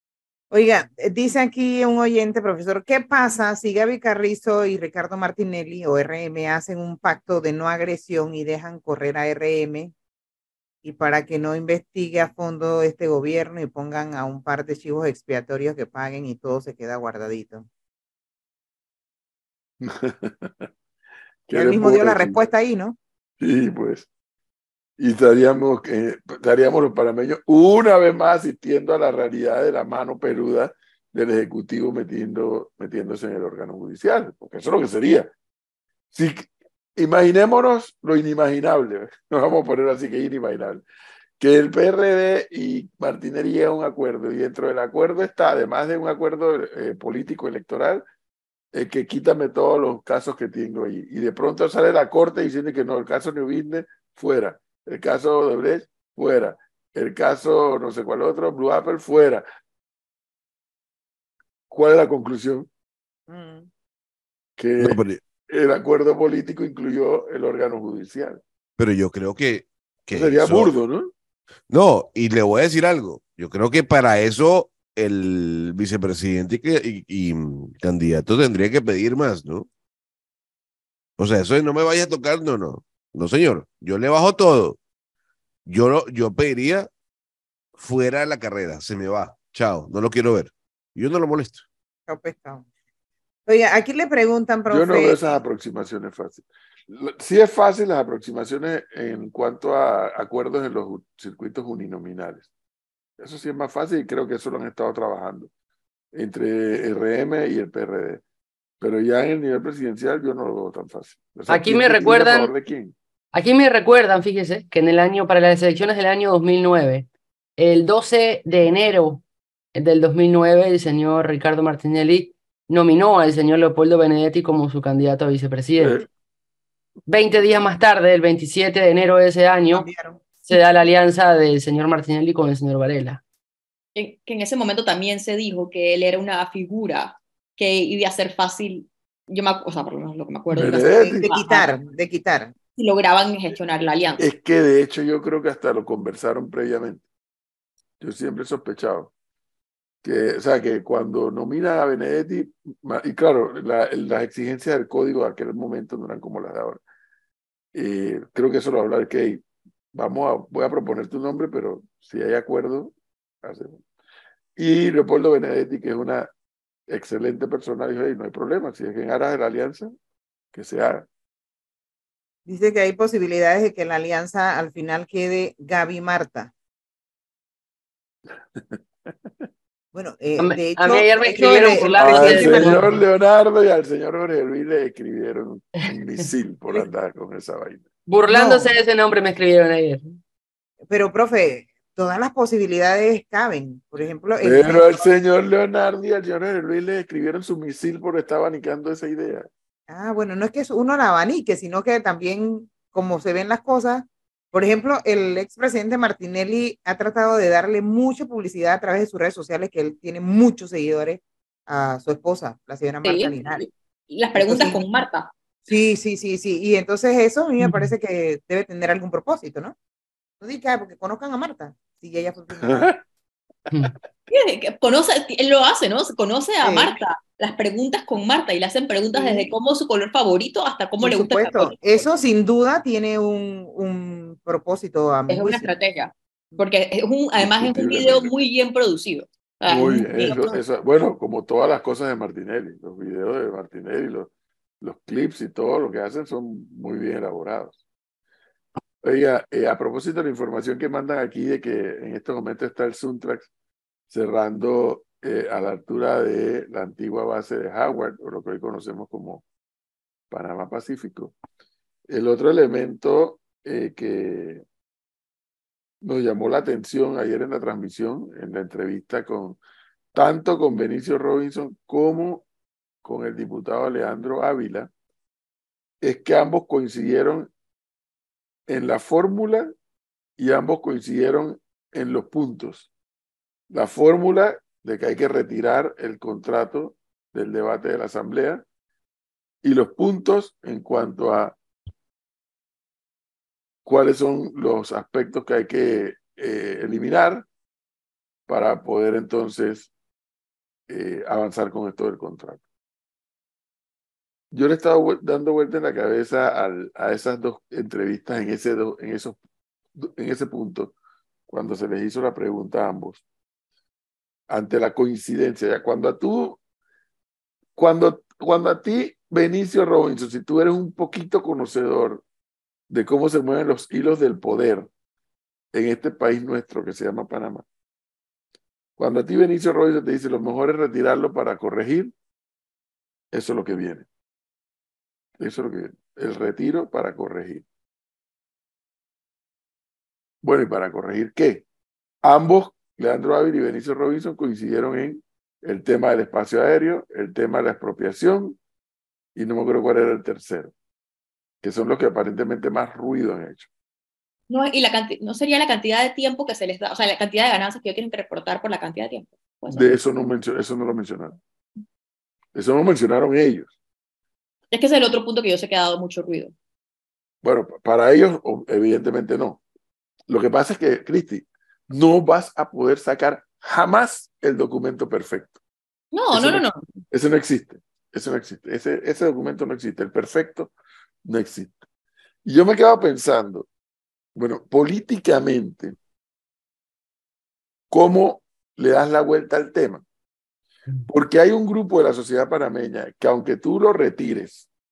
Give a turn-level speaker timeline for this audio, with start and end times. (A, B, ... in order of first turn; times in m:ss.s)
0:00.5-0:09.9 A
0:10.8-0:17.7 A
0:19.8-0:20.7 B
0:21.5-0:22.4 B
0:21.5-0:23.0 A
0:23.4-0:24.1 B
0:25.0-0:35.3 B
0:36.1-0:40.8 B
0:41.4-0:48.0 B
0:48.7-0:59.4 B
1:01.7-1:02.7 B
1:03.3-1:03.7 A
1:04.6-1:08.4 B
1:04.8-1:05.2 C
1:08.8-1:10.7 C
1:10.1-1:11.1 B
1:11.7-1:19.7 C
1:21.2-1:24.8 C
1:25.7-1:26.9 C
1:27.8-1:31.6 C
1:32.1-1:32.6 A
1:33.5-1:35.4 A
1:34.7-1:42.5 B
1:43.2-1:45.5 B
1:46.1-1:48.2 B
1:48.8-1:53.0 B
1:51.5-1:52.5 D
1:53.3-1:59.2 D
1:59.8-2:06.0 D
2:05.8-2:06.0 B
2:07.1-2:09.9 D
2:09.7-2:10.2 A
2:10.5-2:13.2 D
2:14.0-2:21.7 E
2:20.5-2:21.3 B
2:21.0-2:22.5 A
2:22.8-2:24.2 E
2:24.2-2:27.0 B
2:28.0-2:29.1 B
2:30.0-2:36.8 B
2:37.7-2:43.8 B
2:44.6-2:46.3 B
2:46.9-2:49.9 B
2:50.5-2:51.1 B
2:52.5-2:56.5 A
2:59.9-3:02.8 A
3:00.4-3:03.0 D
3:02.0-3:07.9 B
3:08.1-3:10.2 D
3:08.3-3:08.7 A
3:10.9-3:15.0 A
3:14.4-3:19.5 B
3:19.9-3:33.6 A
3:33.0-3:35.3 E
3:34.3-3:34.8 A
3:35.7-3:39.8 A
3:37.6-3:37.9 D
3:40.4-3:42.9 A
3:42.6-3:43.0 B
3:44.3-3:51.8 E
3:46.6-3:46.9 A
3:49.1-3:49.5 A
3:51.0-3:55.7 A
3:55.3-4:00.6 E
3:57.4-3:58.3 B
3:59.7-4:04.3 B
4:04.8-4:07.8 B
4:09.0-4:13.5 B
4:14.1-4:19.4 B
4:20.3-4:21.4 B
4:22.1-4:24.6 B
4:26.0-4:29.6 B
4:30.1-4:32.4 B
4:33.0-4:34.9 B
4:36.0-4:37.5 B
4:38.7-4:39.7 B
4:40.4-4:42.9 B
4:43.7-4:48.6 B
4:49.6-4:51.6 B
4:53.8-4:57.5 B
4:58.5-4:59.9 B
5:00.9-5:02.6 B
5:04.5-5:09.4 B
5:10.0-5:10.9 B
5:11.5-5:13.2 B
5:14.5-5:16.6 B
5:17.8-5:22.2 B
5:22.9-5:24.9 B
5:25.7-5:27.6 B
5:29.0-5:32.1 B
5:33.3-5:34.1 B
5:35.4-5:37.6 B
5:40.4-5:41.6 B
5:42.2-5:48.6 B
5:49.4-5:50.7 B
5:51.6-5:53.7 B
5:54.5-5:59.9 E
5:59.7-6:01.4 B
6:02.6-6:03.7 B
6:04.7-6:06.5 E
6:07.4-6:09.6 B
6:10.3-6:15.6 B
6:16.1-6:16.8 E
6:16.3-6:20.7 B
6:21.2-6:21.8 B
6:22.4-6:23.7 B
6:24.4-6:26.0 B
6:27.9-6:30.0 B
6:31.1-6:34.6 B